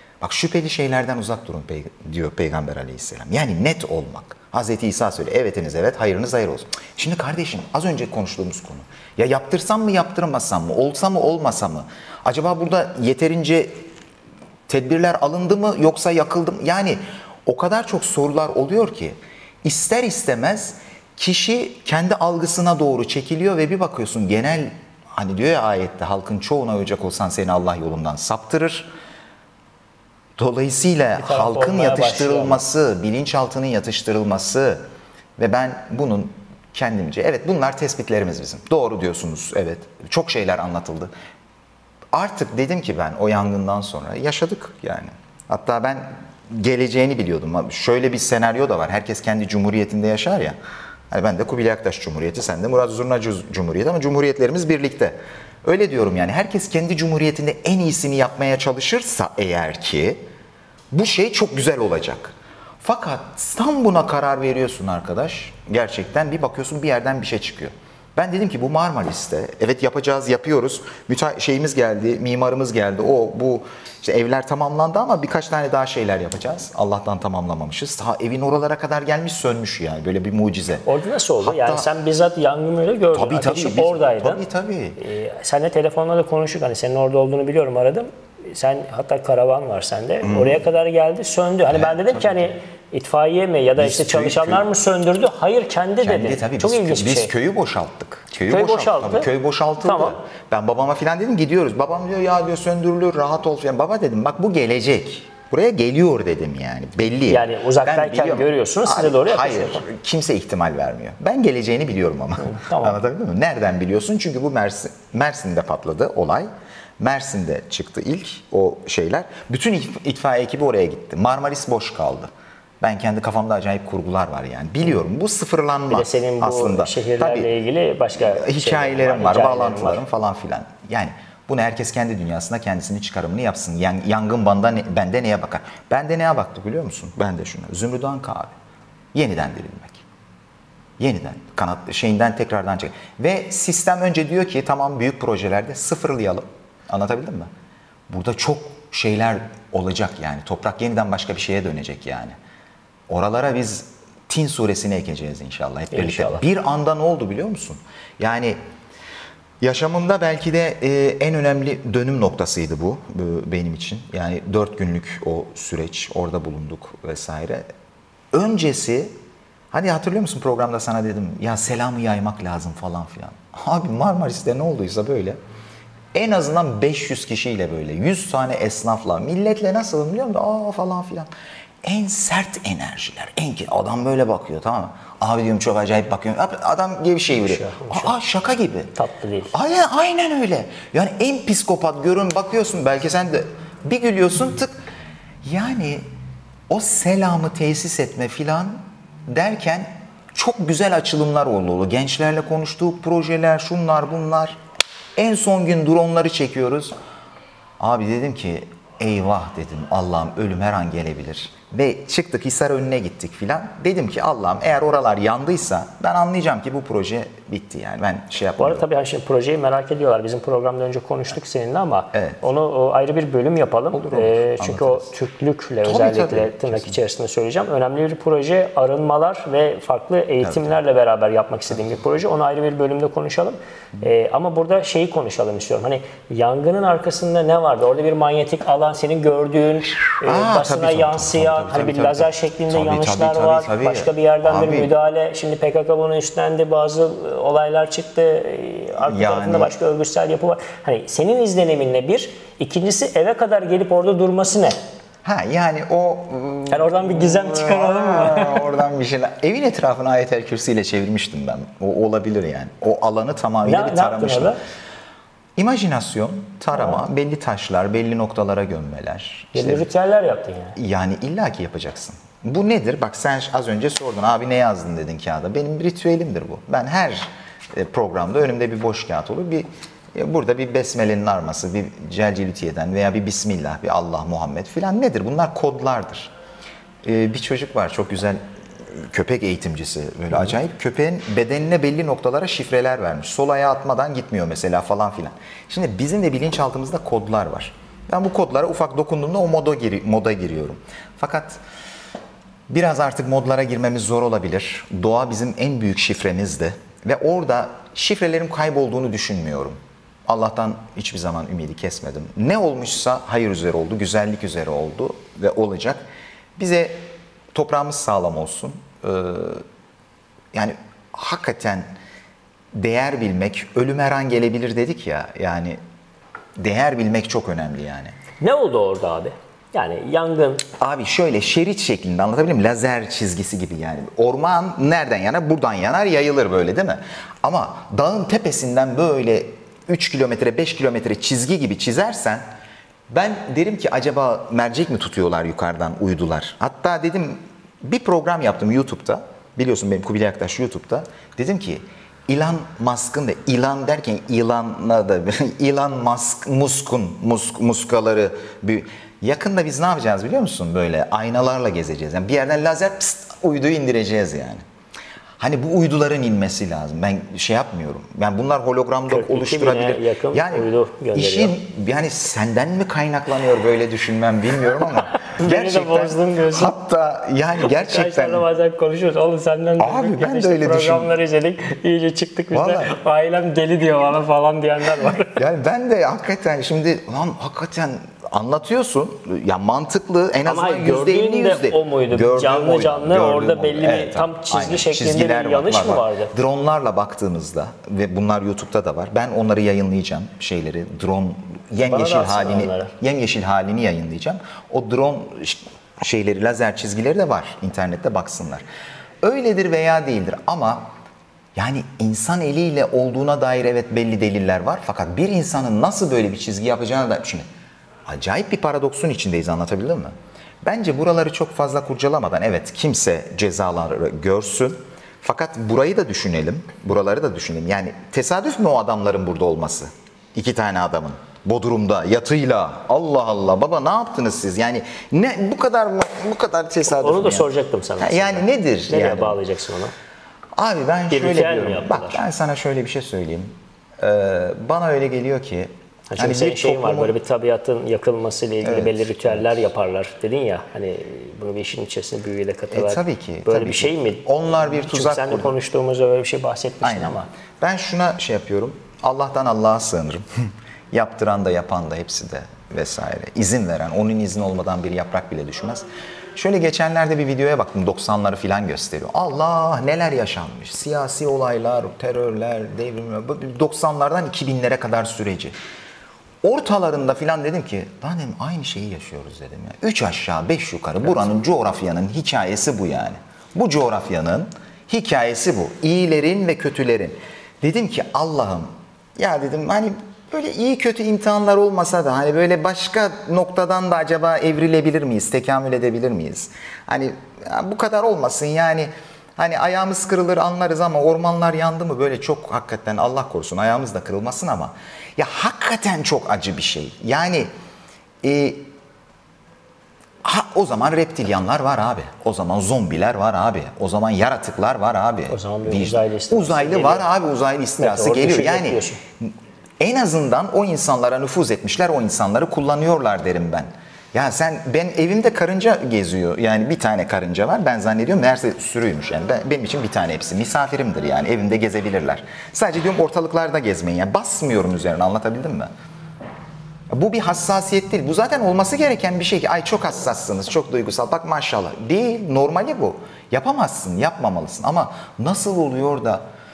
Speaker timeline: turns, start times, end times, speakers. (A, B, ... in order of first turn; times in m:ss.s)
0:00.2-0:13.8 A
0:14.7-0:28.9 A
0:30.4-0:34.8 A
0:31.2-0:32.6 B
0:35.4-0:41.1 A
0:42.1-0:50.6 A
0:51.1-1:00.2 A
1:00.9-1:20.8 A
1:20.8-1:24.4 B
1:21.4-1:21.8 A
1:23.1-1:25.0 A
1:25.0-1:37.3 B
1:30.2-1:30.6 A
1:31.7-1:32.5 A
1:33.8-1:34.6 A
1:36.0-1:56.5 A
1:38.4-1:39.3 B
1:39.8-1:40.2 B
1:47.2-1:49.8 B
1:52.4-1:53.0 B
1:57.0-2:02.3 A
2:02.8-2:07.5 A
2:05.9-2:10.0 B
2:08.2-2:18.5 A
2:19.1-2:20.0 A
2:21.0-2:27.5 A
2:28.1-2:32.4 A
2:33.1-2:38.6 A
2:35.9-2:36.4 B
2:39.6-2:47.6 A
2:48.3-2:49.1 A
2:49.7-2:55.4 A
2:56.1-3:01.3 A
3:01.8-3:08.9 A
3:07.4-3:08.1 B
3:09.0-3:09.5 B
3:09.5-3:14.7 A
3:15.4-3:16.0 A
3:16.7-3:24.6 A
3:25.2-3:26.9 A
3:27.8-3:38.8 A
3:38.6-4:14.8 B
3:42.1-3:42.4 A
3:43.9-3:45.1 A
3:45.8-3:47.0 A
3:50.4-3:50.8 A
4:00.1-4:04.9 A
4:09.0-4:09.7 A
4:15.2-4:24.5 A
4:16.7-4:18.7 B
4:23.6-4:24.6 B
4:25.6-4:29.9 A
4:26.7-4:27.0 B
4:29.5-4:30.8 B
4:30.8-4:46.3 A
4:47.0-5:01.6 A
5:02.7-5:16.0 A
5:16.6-5:17.0 A
5:17.5-5:19.6 A
5:20.5-5:21.9 A
5:22.7-5:25.8 A
5:26.6-5:28.1 A
5:28.4-5:30.6 B
5:30.8-5:42.4 A
5:43.1-6:04.6 A
6:05.4-6:18.4 A
6:09.1-6:11.5 B
6:15.2-6:16.8 B
6:17.6-6:25.4 B
6:19.8-6:21.1 A
6:22.5-6:22.9 A
6:25.3-6:48.6 A
6:30.4-6:36.3 B
6:41.8-6:42.9 B
6:49.2-6:50.9 A
6:51.6-6:57.5 A
6:58.1-7:19.4 A
7:16.8-7:19.9 B
7:20.6-7:27.1 A
7:21.1-7:22.2 B
7:26.1-7:37.3 B
7:28.6-7:29.4 A
7:32.7-7:35.5 A
7:36.8-7:55.5 A
7:56.4-8:27.5 A
8:28.2-8:28.6 A
8:30.2-8:55.7 A
8:35.3-8:37.1 B
8:37.8-8:39.0 B
8:56.9-9:06.2 A